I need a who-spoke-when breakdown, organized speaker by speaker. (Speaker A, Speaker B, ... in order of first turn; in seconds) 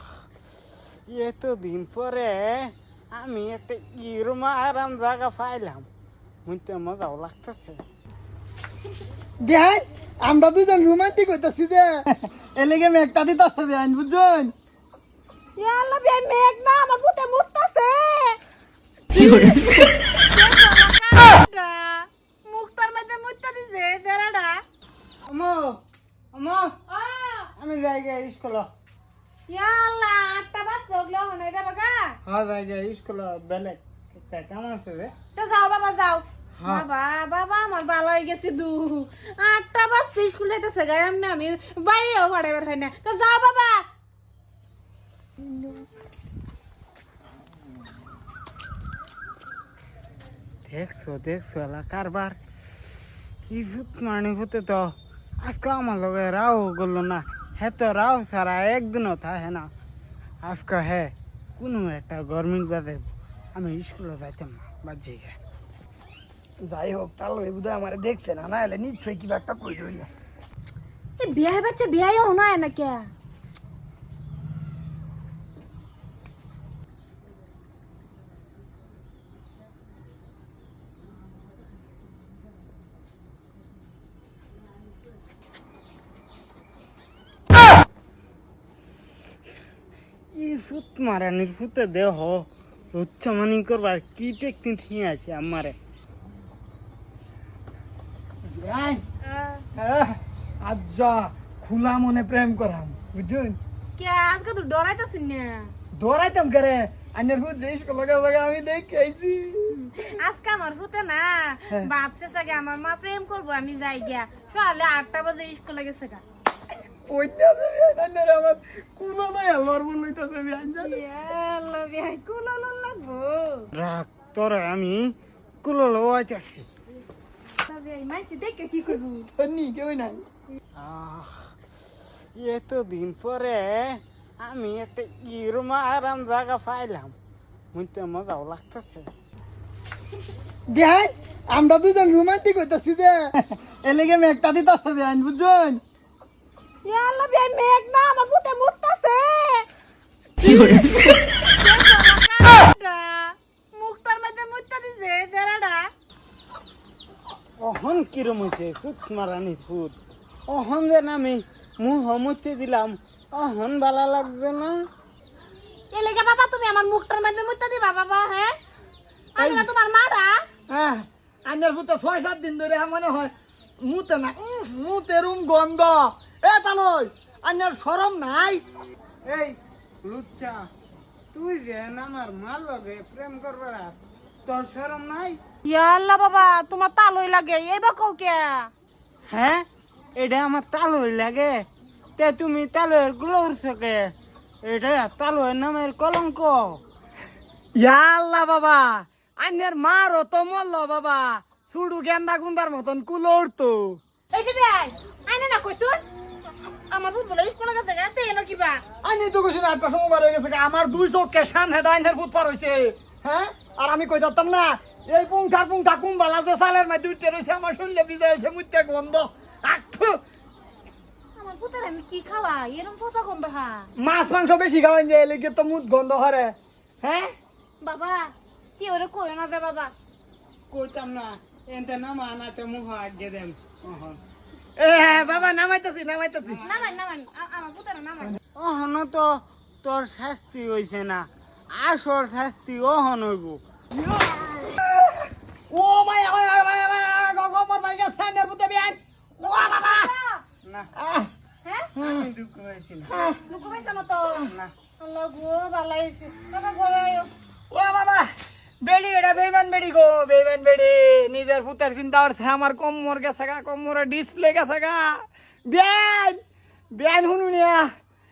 Speaker A: 1.1-5.9, 6.4-7.8, 25.3-25.8, 26.3-26.8, 27.6-28.7, 32.2-35.1, 36.6-36.9, 50.6-52.4, 53.5-59.7, 60.4-65.4, 90.3-95.8, 123.7-126.7, 130.7-131.5, 132.3-137.1, 137.7-139.1, 157.6-159.9, 160.5-164.8, 179.2-180.7, 181.3-185.4, 189.3-194.1, 194.6-196.8, 230.7-234.2, 238.5-243.6, 250.6-250.9, 252.0-253.1, 254.5-254.7
Speaker B: 9.4-14.5, 66.6-70.1, 98.4-99.0, 99.8-103.6, 105.9-109.7, 117.0-121.0, 129.3-130.2, 140.7-145.8, 150.4-151.0, 169.4-169.7, 170.7-178.6, 197.8-204.0, 209.0-220.2, 223.9-227.3, 234.8-236.6, 243.9-250.1, 250.9-251.3, 251.9-252.3, 253.1-253.4, 257.7-266.4, 266.9-267.9
Speaker C: 15.6-18.4, 19.1-24.6, 26.9-27.5, 29.5-32.2, 35.3-43.8, 45.4-45.8, 71.2-73.1, 99.2-99.6, 104.0-105.7, 109.7-116.2, 120.7-123.7, 127.6-129.3, 146.8-149.7, 151.1-155.9, 165.9-168.5, 169.3-170.3, 185.6-188.7, 204.3-206.0, 206.7-208.8, 221.3-223.9, 227.8-229.9, 236.6-238.4, 249.5-250.4, 251.6-251.9, 253.4-257.3